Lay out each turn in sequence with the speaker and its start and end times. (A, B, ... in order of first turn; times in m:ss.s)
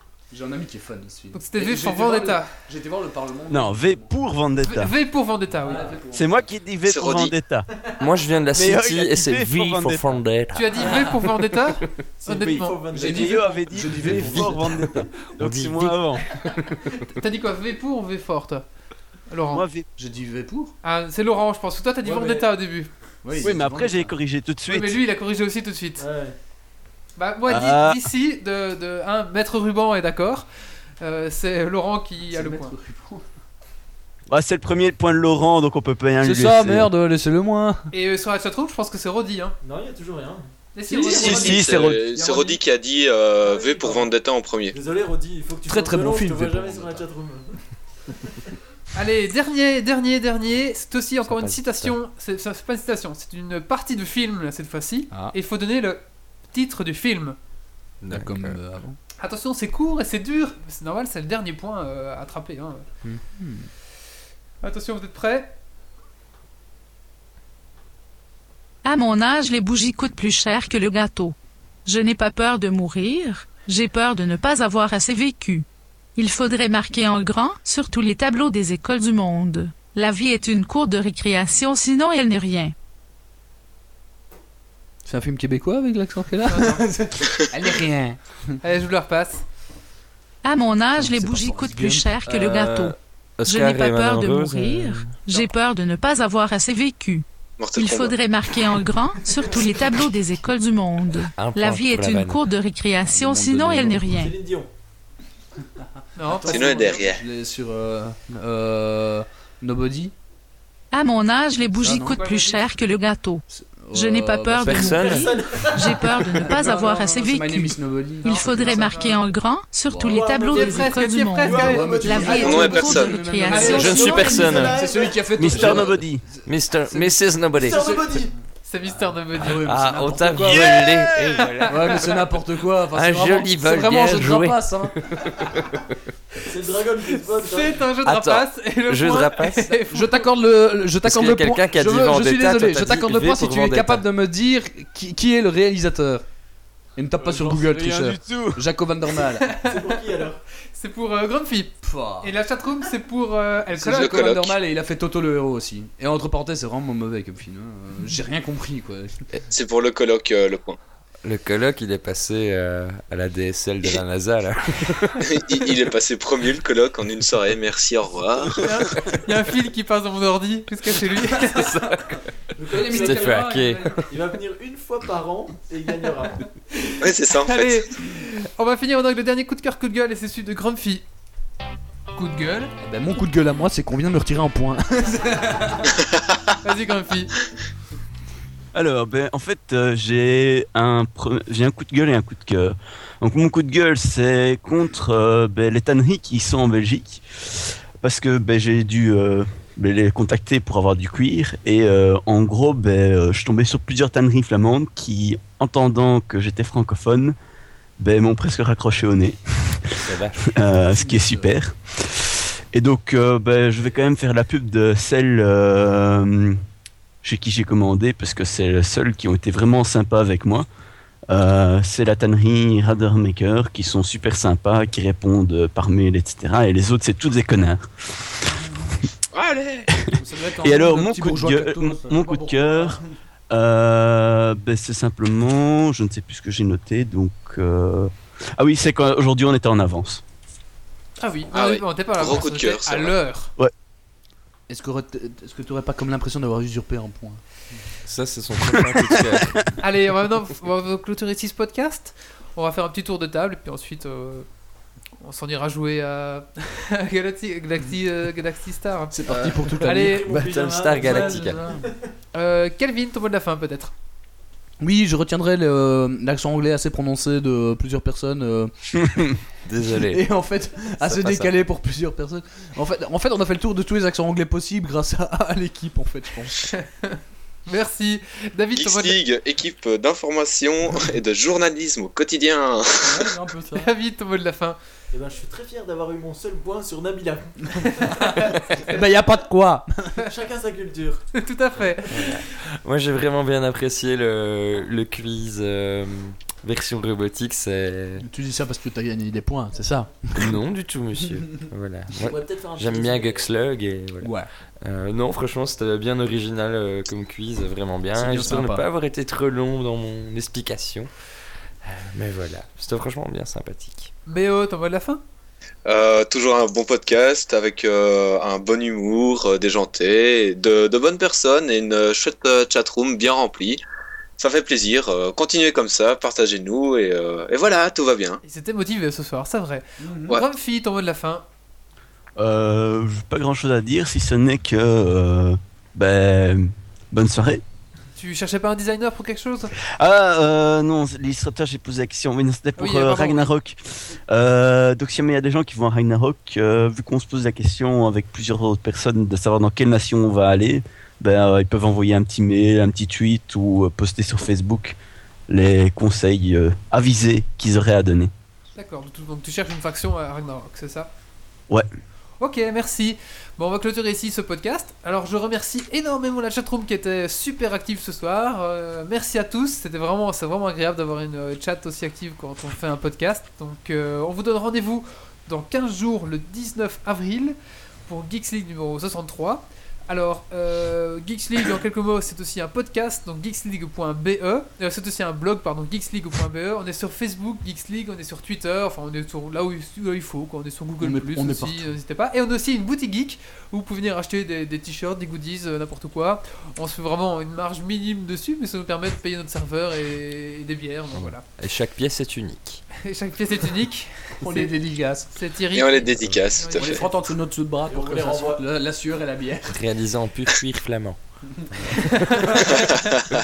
0:00.3-0:04.1 A
0:01.3-0:02.5 B
0:03.5-0:04.9 C
0:04.6-0:05.9 B
0:05.6-0:06.5 A
0:06.1-0:07.9 C
0:06.9-0:07.4 D
0:08.0-0:11.2 E
0:08.5-0:10.1 C
0:10.5-0:13.2 B
0:12.2-0:15.0 F
0:12.9-0:14.7 A
0:13.0-0:16.2 C
0:15.4-0:16.9 E
0:17.1-0:18.6 B
0:19.3-0:19.6 B
0:19.5-0:19.9 C
0:20.0-0:20.7 A
0:20.8-0:22.9 B
0:22.0-0:22.4 F
0:23.2-0:24.2 A
0:23.4-0:25.0 C
0:24.7-0:26.0 B
0:26.0-0:26.4 F
0:27.2-0:32.7 B
0:27.5-0:28.0 C
0:32.3-0:33.2 A
0:34.3-0:36.9 C
0:36.2-0:37.9 A
0:37.9-0:39.6 B
0:39.6-0:40.5 F
0:40.7-0:41.8 B
0:40.9-0:42.6 A
0:41.0-0:42.0 C
0:41.2-0:44.8 D
0:43.5-0:44.1 B
0:44.7-0:47.6 F
0:45.6-0:47.0 A
0:48.2-0:48.5 F
0:48.9-0:57.4 B
0:51.2-0:52.0 E
0:58.0-0:58.6 E
0:58.1-0:59.0 A
0:59.2-1:02.8 B
1:03.0-1:03.7 A
1:04.6-1:05.5 B
1:08.8-1:22.7 G
1:25.0-1:28.6 A
1:26.5-1:26.8 B
1:28.6-1:29.4 B
1:30.4-1:32.9 G
1:30.9-1:32.2 A
1:32.2-1:35.3 E
1:33.4-1:44.3 G
1:37.6-1:38.2 D
1:41.3-1:42.4 E
1:43.0-1:44.2 A
1:44.0-1:44.7 F
1:46.2-1:47.0 B
1:46.2-1:50.1 A
1:46.5-1:47.2 D
1:50.9-2:04.7 G
1:51.6-1:52.2 A
1:52.1-1:52.6 B
1:53.5-1:55.2 A
1:54.6-1:55.3 E
1:55.1-1:56.3 F
1:55.8-1:59.2 A
1:58.2-1:59.2 B
1:59.8-2:00.7 A
2:00.0-2:02.9 F
2:00.5-2:02.2 B
2:01.5-2:08.4 A
2:02.3-2:03.2 D
2:03.4-2:05.9 F
2:03.5-2:04.0 B
2:03.6-2:04.8 E
2:05.4-2:06.2 C
2:06.4-2:07.8 E
2:07.6-2:08.3 F
2:08.6-2:10.8 B
2:08.9-2:14.9 A
2:09.4-2:12.2 E
2:11.4-2:11.8 B
2:12.9-2:16.0 E
2:16.4-2:17.8 F
2:17.3-2:20.3 B
2:18.0-2:19.7 E
2:19.8-2:26.2 A
2:21.0-2:24.0 E
2:27.0-2:29.5 A
2:27.2-2:27.7 F
2:27.4-2:28.6 C
2:29.4-2:34.1 B
2:29.6-2:30.4 F
2:31.8-2:32.3 A
2:33.7-2:39.1 A
2:33.9-2:34.6 D
2:39.5-2:40.8 D
2:41.2-2:45.4 E
2:45.2-2:48.6 D
2:48.4-2:49.1 E
2:48.6-2:51.8 B
2:51.4-2:54.0 E
2:52.6-2:53.5 F
2:52.7-2:53.8 A
2:53.4-2:54.0 B
2:54.1-2:56.4 F
2:56.8-3:01.0 B
2:57.0-2:57.8 D
3:02.1-3:02.7 B
3:02.8-3:05.9 A
3:06.6-3:07.3 B
3:08.7-3:27.4 C
3:28.0-3:36.6 C
3:30.0-3:30.5 E
3:30.9-3:31.5 A
3:37.2-3:40.6 C
3:41.3-3:48.8 C
3:49.3-3:49.9 D
3:49.9-4:00.2 C
3:50.2-3:53.1 A
4:01.2-4:03.5 B
4:01.5-4:03.1 D
4:04.7-4:07.4 A
4:08.0-4:09.7 E
4:09.0-4:09.6 C
4:09.8-4:14.5 B
4:15.2-4:19.2 B
4:19.1-4:20.3 A
4:19.3-4:19.6 E
4:19.7-4:20.3 B
4:19.9-4:22.1 F
4:20.3-4:21.6 E
4:21.0-4:21.8 A
4:22.3-4:23.9 B
4:24.8-4:28.7 A
4:29.6-4:30.4 E
4:30.0-4:36.7 A
4:31.0-4:31.5 E
4:36.7-4:39.2 B
4:38.7-4:43.3 D
4:43.0-4:43.9 A
4:43.7-4:44.8 B
4:45.1-4:48.9 F
4:48.0-4:49.0 B
4:48.9-4:50.1 A
4:50.2-4:51.2 F
4:51.3-4:52.4 B
4:52.1-4:58.2 E
4:58.2-5:00.6 A
5:00.4-5:11.1 E
5:02.1-5:03.5 F
5:04.2-5:04.5 A
5:08.1-5:08.8 A
5:11.8-5:14.1 E
5:14.2-5:15.2 B
5:15.8-5:23.8 D
5:24.4-5:28.4 D
5:28.4-5:31.4 B
5:30.0-5:30.4 A
5:32.4-5:37.6 C
5:38.2-5:39.7 B
5:40.0-5:55.0 C
5:42.8-5:43.5 B
5:55.5-5:58.3 C
5:58.7-6:01.1 B
6:02.4-6:41.4 B
6:31.0-6:31.9 A
6:41.1-6:42.8 E
6:43.0-6:47.0 B
6:44.4-6:45.3 A
6:45.7-6:47.1 D
6:46.2-6:46.5 E
6:46.7-6:49.8 A
6:47.9-6:48.6 F
6:49.7-6:52.0 E
6:52.4-6:53.1 B